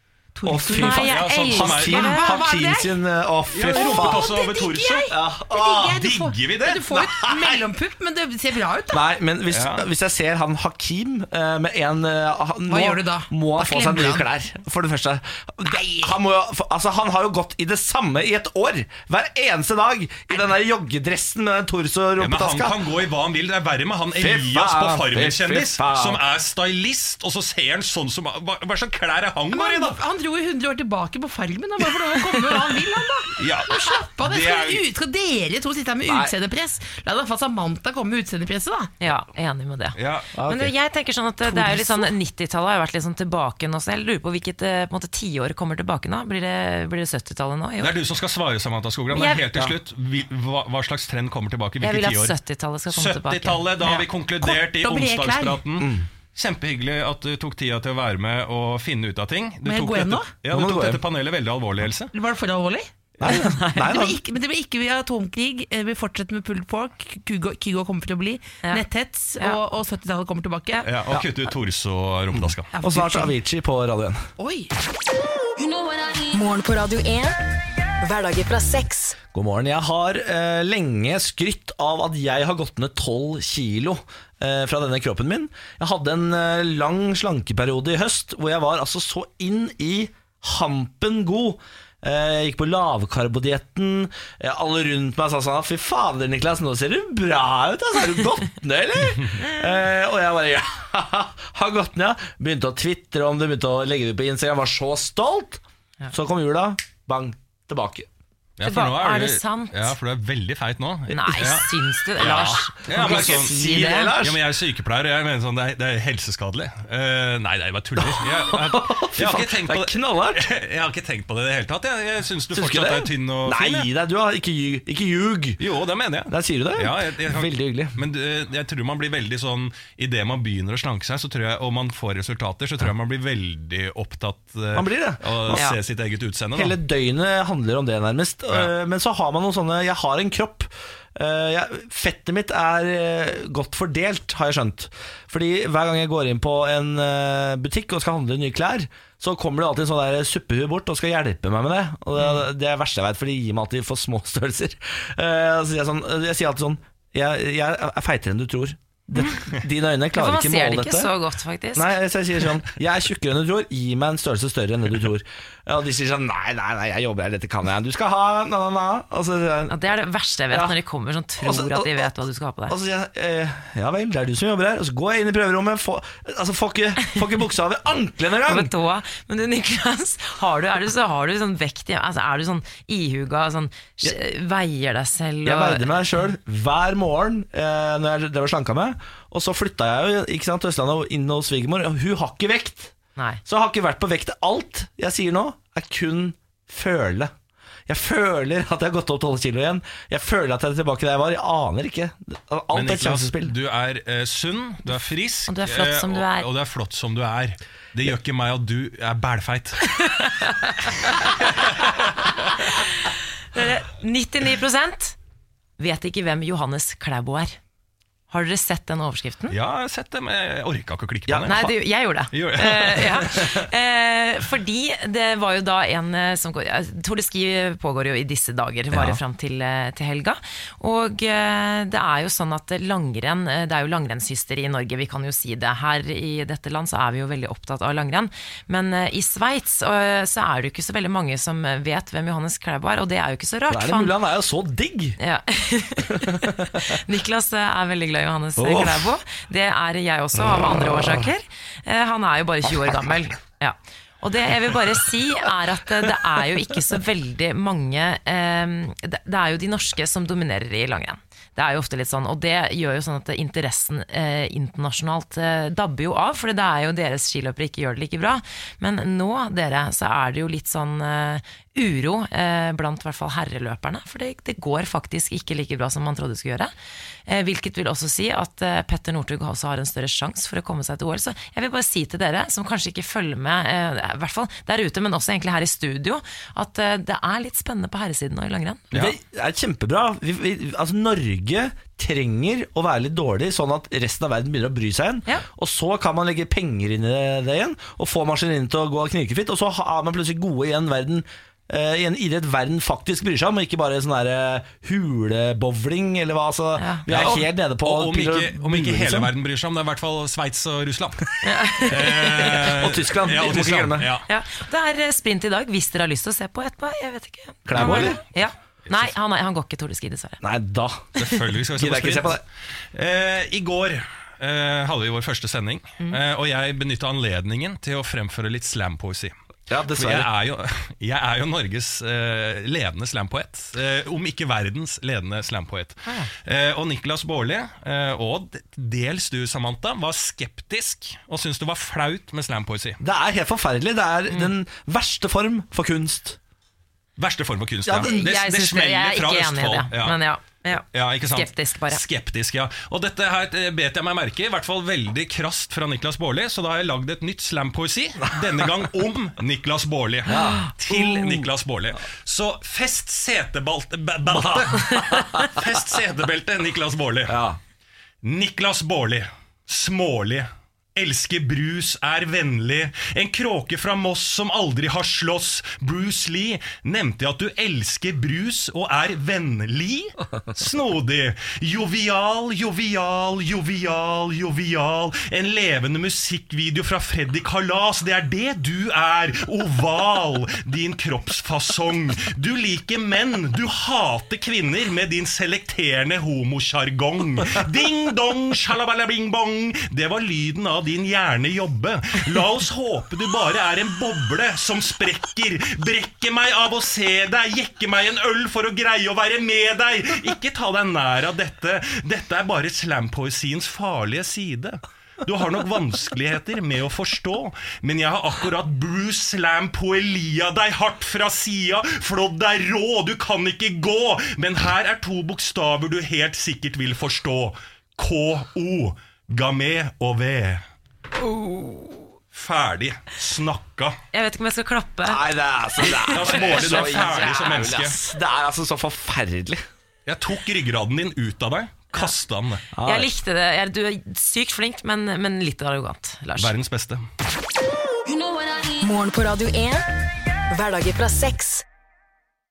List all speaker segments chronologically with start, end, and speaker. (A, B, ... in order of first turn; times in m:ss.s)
0:00.3-0:01.2 A
0:00.4-0:04.2 B
0:00.7-0:02.4 C
0:01.0-0:02.2 D
0:01.9-0:03.0 A
0:03.5-0:05.1 D
0:03.6-0:09.0 A
0:05.1-0:06.0 B
0:05.9-0:07.2 D
0:06.9-0:07.5 B
0:08.9-0:22.8 B
0:09.5-0:09.8 D
0:12.7-0:14.3 A
0:15.6-0:16.1 A
0:22.2-0:30.0 D
0:24.2-0:26.2 B
0:29.5-0:38.9 A
0:33.4-0:34.8 D
0:36.1-0:36.3 B
0:39.0-0:48.0 C
0:40.0-0:40.3 D
0:40.3-0:40.7 B
0:41.5-0:42.1 A
0:47.8-0:52.4 D
0:49.1-0:49.4 C
0:51.8-0:53.6 C
0:52.9-1:02.1 D
0:53.8-0:55.6 A
0:55.8-0:56.1 B
0:59.6-1:00.3 A
1:00.5-1:01.0 B
1:02.1-1:02.9 A
1:03.2-1:04.2 B
1:03.3-1:03.9 C
1:03.8-1:10.8 A
1:10.8-1:12.7 D
1:12.3-1:14.3 B
1:12.7-1:13.3 A
1:14.4-1:14.7 A
1:15.6-1:19.2 E
1:19.3-1:48.1 B
1:48.6-2:03.9 D
1:48.6-1:50.0 C
1:51.1-1:54.1 C
1:52.2-1:54.4 B
1:58.0-2:00.5 B
2:02.5-2:05.6 B
2:05.6-2:16.8 D
2:06.3-2:08.0 B
2:14.7-2:15.7 B
2:15.5-2:15.8 C
2:16.5-2:41.1 B
2:32.2-2:32.4 C
2:40.1-2:41.9 C
2:41.7-2:49.7 B
2:49.7-2:52.8 C
2:50.5-2:50.8 B
2:51.4-2:52.1 B
2:52.7-2:58.7 B
2:58.4-3:06.0 C
3:05.4-3:12.9 B
3:13.2-3:13.4 C
3:13.4-3:17.3 B
3:17.9-3:23.5 B
3:22.7-3:30.0 D
3:24.9-3:26.5 C
3:30.0-3:30.9 C
3:31.1-3:31.9 D
3:32.6-3:35.2 C
3:35.8-3:37.6 C
3:38.3-3:39.6 C
3:39.5-3:41.7 D
3:41.3-3:41.7 B
3:41.5-4:04.1 C
3:42.3-3:43.3 D
3:43.4-3:43.6 B
3:48.9-3:49.2 B
4:03.7-4:05.2 B
4:05.2-4:36.7 C
4:06.2-4:06.9 B
4:08.6-4:09.1 B
4:37.3-4:48.9 C
4:48.9-4:49.2 D
4:48.9-5:09.3 B
5:06.8-5:07.0 C
5:07.1-5:11.2 D
5:11.4-5:12.7 C
5:11.8-5:14.3 D
5:12.7-5:14.1 B
5:14.3-5:20.4 C
5:17.6-5:18.2 B
5:17.7-5:18.2 D
5:20.4-5:22.4 B
5:21.2-5:29.3 D
5:29.7-5:30.3 B
5:29.9-5:43.0 D
5:43.0-5:46.4 B
5:47.2-5:50.2 D
5:47.8-5:48.2 B
5:48.0-5:52.0 C
5:50.9-6:07.4 D
6:00.3-6:01.5 B
6:04.3-6:05.6 B
6:07.3-6:07.6 B
6:08.2-7:10.6 D
7:11.2-7:12.0 C
7:12.3-7:14.0 D
7:14.1-7:15.3 C
7:15.0-7:19.6 B
7:15.8-7:17.6 C
7:16.1-7:18.0 D
7:20.0-7:22.6 D
7:22.7-7:23.1 B
7:22.8-7:26.5 C
7:26.4-7:27.1 D
7:28.1-7:31.6 E